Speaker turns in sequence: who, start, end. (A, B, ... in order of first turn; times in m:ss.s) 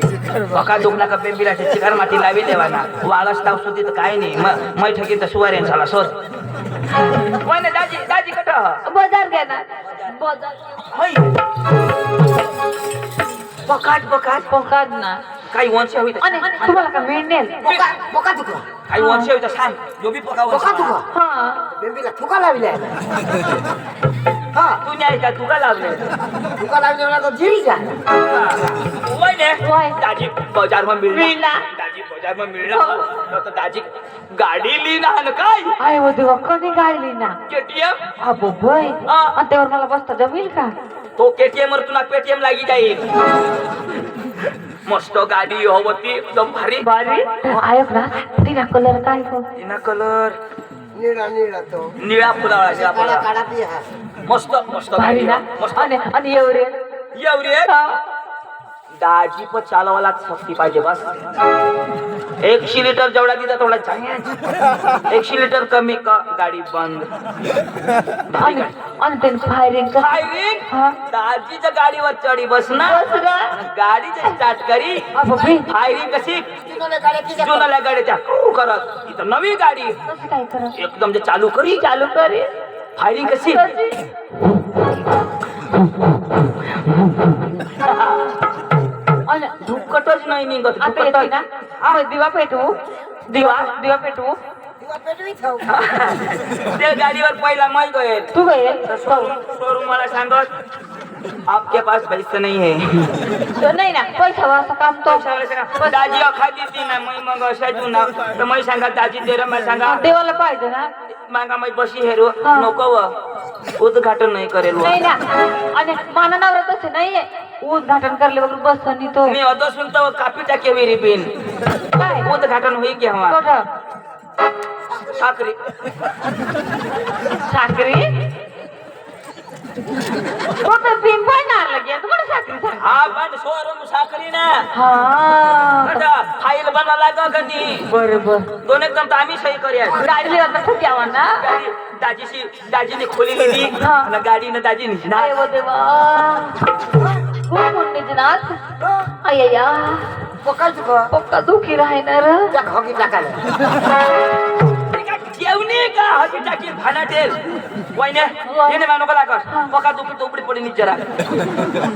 0:00.4-0:06.2 A
0:07.2-0:08.8 A
0:08.8-0:10.8 B
0:09.8-0:10.1 A
0:10.9-0:11.3 A
0:13.6-0:14.5 A
0:14.5-0:15.2 B
0:15.5-0:16.8 A
0:16.2-0:17.6 B
0:17.6-0:17.9 A
0:17.6-0:18.7 C
0:18.9-0:21.0 A
0:18.9-0:19.3 B
0:20.5-0:21.1 C
0:21.1-0:21.7 B
0:21.8-0:23.0 C
0:24.5-0:24.8 C
0:24.8-0:26.1 A
0:26.5-0:28.0 C
0:28.2-0:35.8 A
0:29.6-0:30.0 B
0:31.1-0:31.6 B
0:32.7-0:33.1 B
0:35.8-0:37.4 B
0:37.5-0:38.1 A
0:38.2-0:40.7 B
0:39.0-0:39.4 A
0:41.2-0:43.1 A
0:44.8-0:46.8 A
0:46.8-0:49.5 B
0:49.6-0:50.4 A
0:50.9-0:51.9 C
0:52.0-0:53.2 A
0:52.7-0:53.8 C
0:54.2-0:55.9 A
0:54.9-0:56.7 B
0:57.1-0:57.7 A
0:57.6-0:58.0 B
0:59.0-1:01.0 A
1:02.4-1:07.1 A
1:08.3-1:08.7 A
1:08.4-1:11.0 B
1:09.9-1:16.5 A
1:12.7-1:13.5 B
1:15.1-1:15.7 B
1:16.6-1:17.7 C
1:17.4-1:20.0 A
1:20.0-1:20.8 B
1:20.8-1:21.8 A
1:21.7-1:22.5 B
1:23.0-1:23.7 A
1:23.2-1:24.9 B
1:26.8-1:28.4 A
1:29.3-1:29.6 B
1:29.6-1:32.0 A
1:30.8-1:32.8 B
1:33.3-1:34.4 B
1:33.3-1:33.7 A
1:34.8-1:35.8 C
1:35.6-1:40.5 A
1:38.3-1:39.3 B
1:41.5-1:43.3 A
1:43.5-1:46.2 B
1:45.0-1:50.1 A
1:49.8-1:50.9 B
1:51.1-1:53.1 A
1:52.4-1:52.7 B
1:53.8-1:55.0 A
1:54.8-1:59.4 B
1:59.2-2:01.3 A
2:01.9-2:02.3 B
2:02.2-2:03.4 A
2:03.2-2:03.7 B
2:05.0-2:05.6 A
2:07.4-2:08.3 B
2:10.6-2:12.9 B
2:12.8-2:14.7 A
2:14.7-2:16.0 B
2:15.8-2:17.9 A
2:17.9-2:18.5 B
2:18.6-2:20.0 A
2:20.0-2:21.5 B
2:21.4-2:25.3 A
2:23.8-2:24.1 B
2:25.1-2:26.6 B
2:27.5-2:28.6 B
2:29.2-2:30.3 B
2:30.4-2:31.1 C
2:31.1-2:32.6 B
2:32.5-2:33.4 C
2:34.8-2:37.4 A
2:37.9-2:41.6 A
2:38.5-2:38.8 B
2:39.5-2:39.7 B